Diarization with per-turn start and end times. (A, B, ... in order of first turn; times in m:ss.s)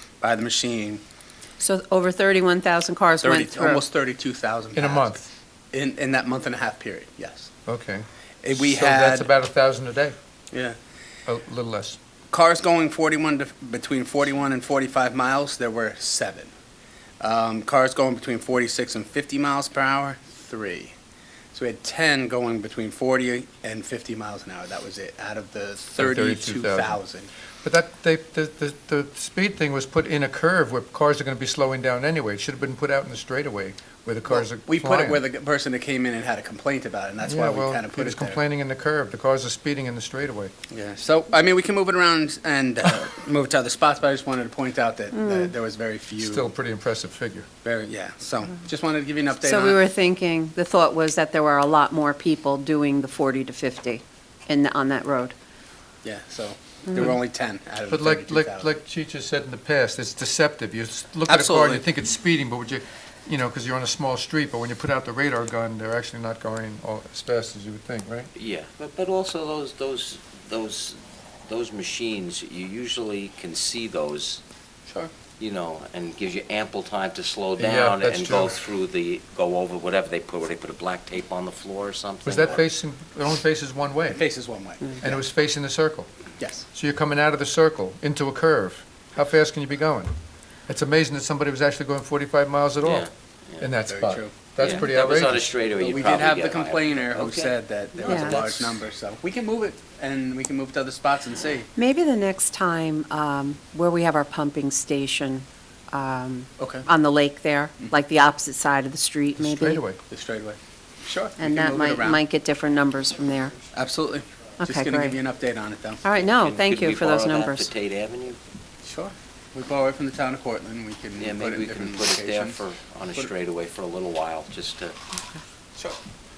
0:00.2-0:01.0 A
0:01.6-0:03.8 B
0:03.2-0:05.2 A
0:04.7-0:05.2 C
0:05.7-0:07.5 A
0:07.7-0:10.1 C
0:08.4-0:09.3 A
0:11.3-0:12.0 C
0:12.3-0:16.5 A
0:17.2-0:20.9 A
0:21.5-0:27.3 A
0:26.0-0:27.0 C
0:27.6-0:35.2 C
0:34.3-0:38.4 A
0:37.2-0:40.5 C
0:40.7-0:46.5 A
0:45.1-0:45.5 B
0:46.2-0:47.5 C
0:47.6-0:49.8 A
0:49.4-0:55.3 B
0:56.0-0:58.7 A
0:57.9-1:08.3 C
1:01.3-1:01.8 A
1:08.3-1:14.4 D
1:15.4-1:22.6 D
1:17.6-1:18.6 C
1:22.2-1:24.3 C
1:24.1-1:25.2 A
1:25.0-1:26.1 C
1:26.7-1:30.1 C
1:30.7-1:35.5 C
1:32.8-1:33.7 D
1:33.8-1:34.3 A
1:34.6-1:38.8 D
1:35.7-1:41.7 A
1:38.0-1:38.4 B
1:41.8-1:49.8 B
1:46.6-1:46.8 A
1:49.4-1:50.0 C
1:50.1-1:52.2 A
1:51.4-1:53.6 B
1:53.7-1:56.0 A
1:54.6-1:55.2 B
1:56.0-1:57.7 B
1:56.2-1:58.4 D
1:58.8-2:02.6 A
2:01.2-2:05.0 D